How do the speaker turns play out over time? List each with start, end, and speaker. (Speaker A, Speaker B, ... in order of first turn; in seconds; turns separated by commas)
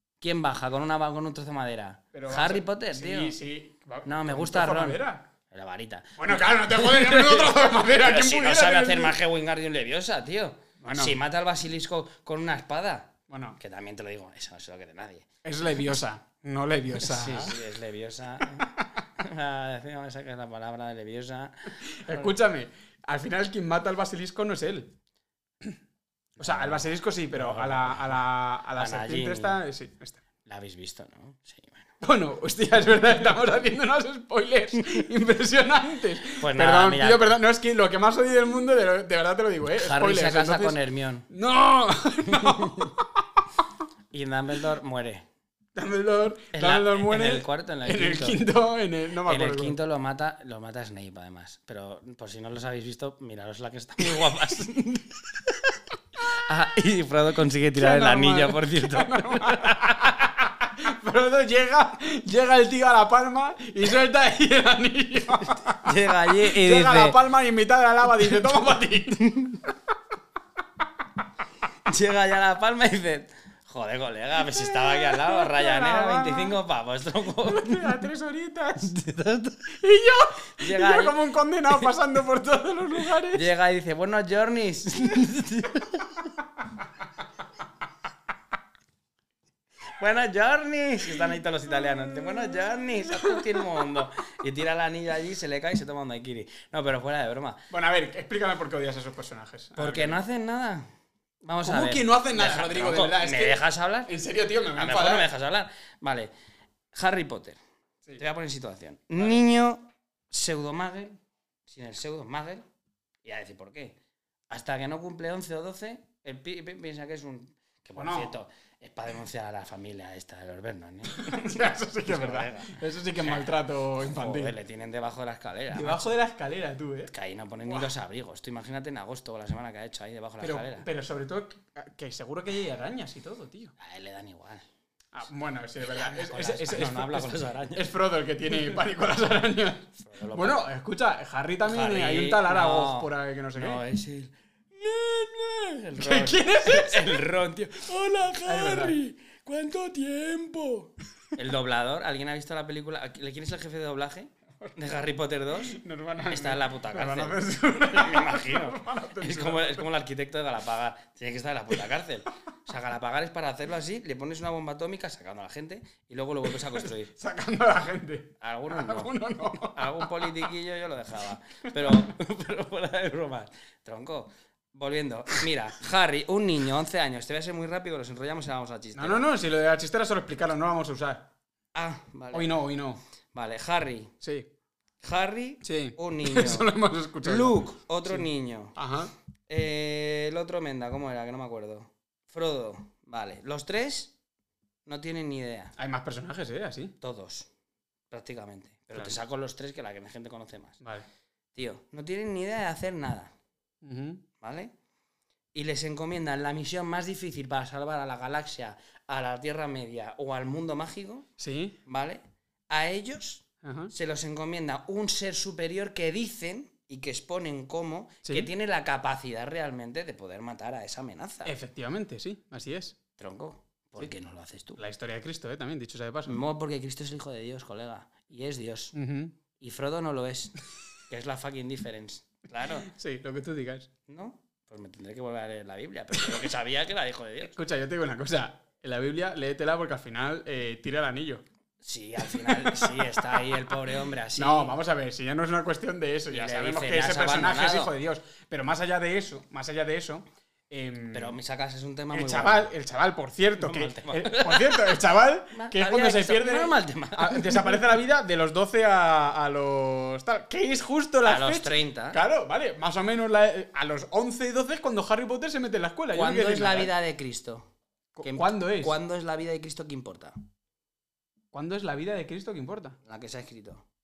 Speaker A: 0.2-3.4, Speaker B: 2.1-5.2, Speaker A: 4.0-15.3, Speaker B: 6.2-9.2, Speaker B: 10.8-11.2, Speaker B: 13.3-13.6, Speaker B: 15.4-17.6, Speaker A: 17.0-22.3, Speaker B: 21.8-24.9, Speaker A: 26.4-28.2, Speaker B: 26.4-30.2, Speaker A: 28.8-29.6, Speaker A: 30.4-31.9, Speaker B: 32.0-43.2, Speaker A: 36.4-37.3, Speaker A: 39.8-41.2, Speaker A: 42.2-42.9, Speaker A: 44.1-45.2, Speaker B: 45.8-49.8, Speaker A: 46.5-48.4, Speaker A: 49.2-60.1, Speaker B: 57.7-69.4, Speaker A: 65.6-67.2, Speaker A: 69.2-69.6, Speaker A: 71.8-78.0, Speaker B: 74.4-76.6, Speaker B: 77.4-78.9, Speaker A: 78.8-79.8, Speaker B: 79.7-83.5, Speaker A: 80.6-81.2, Speaker A: 83.3-86.3, Speaker A: 90.0-97.6, Speaker B: 97.7-100.2, Speaker A: 99.8-100.9, Speaker A: 101.4-104.1, Speaker B: 101.6-105.3, Speaker A: 104.7-106.3, Speaker A: 106.9-107.6, Speaker A: 108.2-112.6, Speaker A: 113.2-114.0, Speaker A: 114.5-126.1, Speaker B: 118.0-118.3, Speaker B: 121.1-124.5, Speaker B: 125.7-127.1, Speaker A: 127.1-130.8, Speaker B: 130.4-133.7, Speaker A: 133.8-134.6, Speaker B: 135.1-143.8, Speaker A: 135.8-137.9, Speaker A: 140.0-140.7, Speaker A: 141.7-167.1, Speaker B: 146.0-147.2, Speaker B: 148.4-149.0, Speaker B: 155.6-159.9, Speaker B: 166.7-170.4, Speaker A: 168.4-179.2, Speaker B: 178.9-181.3, Speaker A: 181.7-182.6, Speaker B: 182.3-183.0, Speaker A: 183.3-184.1, Speaker B: 184.2-184.5, Speaker A: 185.0-188.8, Speaker B: 185.6-189.1, Speaker A: 189.5-194.1, Speaker A: 194.8-195.7, Speaker B: 195.8-196.9, Speaker A: 197.0-197.5, Speaker A: 198.1-200.8, Speaker B: 198.9-199.2, Speaker B: 200.8-201.1, Speaker A: 201.5-203.3, Speaker B: 203.8-204.2, Speaker A: 204.4-204.7, Speaker A: 205.5-211.3, Speaker B: 211.4-211.8, Speaker A: 211.8-221.5, Speaker B: 213.6-213.9, Speaker B: 218.2-218.5, Speaker B: 221.4-223.0, Speaker A: 223.2-224.8, Speaker B: 224.8-226.4, Speaker A: 226.3-228.9, Speaker B: 228.9-229.3, Speaker A: 229.6-230.5, Speaker A: 231.1-232.9, Speaker B: 232.8-233.9, Speaker A: 234.1-237.6, Speaker B: 237.5-241.4, Speaker A: 241.8-244.8, Speaker B: 242.3-243.4, Speaker B: 244.3-251.4, Speaker A: 246.3-247.9, Speaker A: 251.1-252.7, Speaker B: 252.1-266.9, Speaker A: 253.6-255.0, Speaker A: 255.5-257.9, Speaker A: 261.2-262.2, Speaker A: 266.1-267.7, Speaker B: 268.1-268.9, Speaker A: 268.2-270.4, Speaker B: 271.5-273.0, Speaker A: 273.0-273.8